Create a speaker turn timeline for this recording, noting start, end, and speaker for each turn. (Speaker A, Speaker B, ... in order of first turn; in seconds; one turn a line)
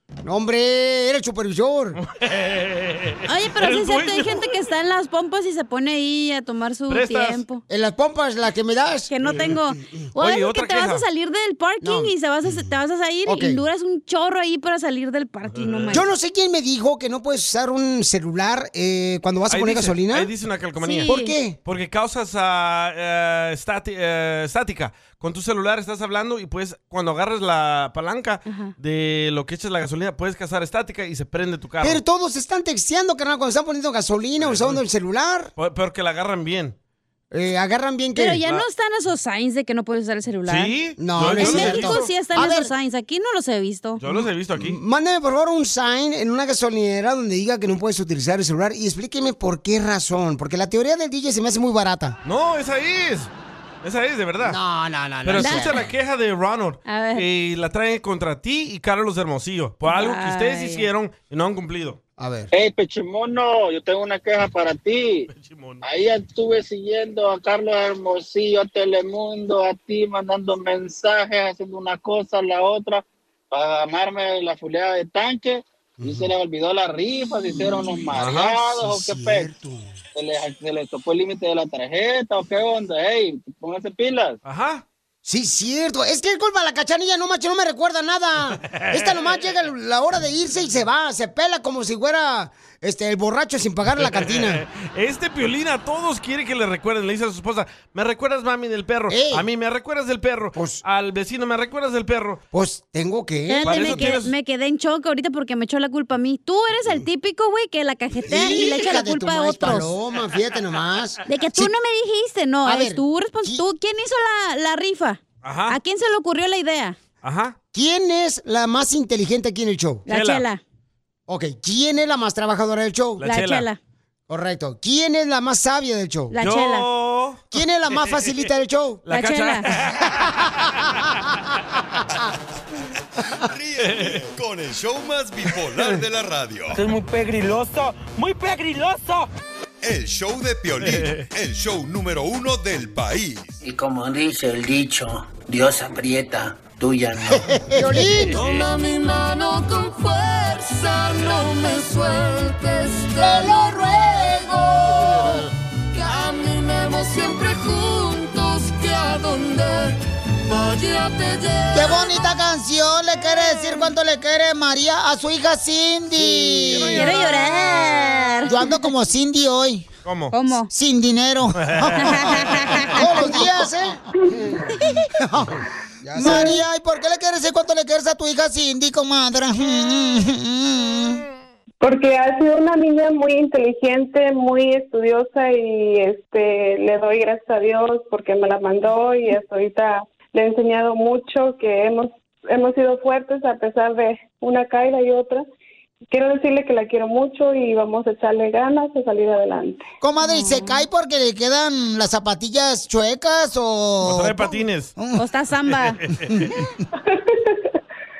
Speaker A: 0.2-2.0
Speaker B: 2.0-4.5
Speaker C: 3.3-7.6
Speaker B: 6.9-7.4
Speaker A: 7.7-9.6
Speaker C: 9.1-16.1
Speaker B: 9.2-9.5
Speaker B: 10.2-11.0
Speaker A: 11.8-12.1
Speaker A: 13.3-13.6
Speaker B: 15.5-16.0
Speaker A: 15.9-20.3
Speaker B: 19.5-32.0
Speaker C: 20.8-21.3
Speaker A: 21.1-21.6
Speaker C: 28.5-28.7
Speaker A: 31.8-35.5
Speaker B: 34.4-34.8
Speaker B: 35.6-36.8
Speaker A: 37.3-38.4
Speaker C: 38.1-40.7
Speaker B: 40.5-42.1
Speaker A: 41.0-42.7
Speaker C: 41.3-44.0
Speaker B: 44.0-44.8
Speaker A: 44.1-52.2
Speaker B: 52.2-53.3
Speaker B: 53.8-54.6
Speaker A: 54.4-55.8
Speaker B: 55.2-62.0
Speaker C: 55.4-55.8
Speaker C: 56.9-57.2
Speaker C: 59.9-60.9
Speaker A: 62.2-62.5
Speaker D: 62.5-65.3
Speaker B: 65.3-65.8
Speaker D: 65.8-79.5
Speaker A: 76.0-76.3
Speaker A: 77.5-79.8
Speaker B: 78.1-78.6
Speaker D: 80.2-84.4
Speaker B: 84.5-84.8
Speaker A: 85.2-94.6
Speaker B: 88.7-89.4
Speaker B: 93.9-102.4
Speaker A: 99.1-99.5
Speaker A: 100.5-100.8
Speaker A: 102.5-104.0
Speaker C: 103.5-109.9
Speaker B: 103.6-104.3
Speaker A: 108.2-111.7
Speaker C: 111.3-117.0
Speaker A: 112.6-113.6
Speaker B: 115.4-115.8
Speaker B: 117.2-117.6
Speaker A: 117.7-120.0
Speaker C: 120.1-120.6
Speaker B: 120.1-120.5
Speaker A: 121.3-123.2
Speaker B: 123.2-123.7
Speaker C: 123.2-123.8
Speaker A: 124.3-126.3
Speaker C: 126.3-126.9
Speaker B: 126.4-128.2
Speaker A: 127.5-129.0
Speaker B: 129.1-130.4
Speaker C: 129.1-129.7
Speaker E: 133.4-136.8
Speaker B: 133.8-134.2
Speaker F: 136.7-139.3
Speaker E: 139.8-143.6
Speaker B: 140.8-141.3
Speaker G: 143.7-147.3
Speaker A: 147.7-148.4
Speaker B: 148.3-148.7
Speaker H: 148.5-155.2
Speaker A: 153.2-154.2
Speaker A: 154.9-155.3
Speaker H: 156.1-160.0
Speaker H: 160.5-161.9
Speaker A: 161.7-167.2
Speaker B: 166.2-167.5
Speaker C: 166.9-168.8
Speaker A: 168.4-169.9
Speaker B: 170.1-170.3
Speaker C: 170.3-170.7
Speaker A: 170.7-174.7
Speaker B: 171.6-172.8
Speaker C: 172.0-173.4
Speaker A: 175.2-181.2
Speaker C: 176.2-176.6
Speaker I: 176.2-176.6
Speaker I: 181.8-195.5
Speaker I: 196.1-199.9
Speaker A: 200.0-205.2
Speaker C: 200.2-200.8
Speaker B: 204.0-204.9
Speaker C: 205.2-206.0
Speaker B: 205.7-206.4
Speaker I: 207.0-207.6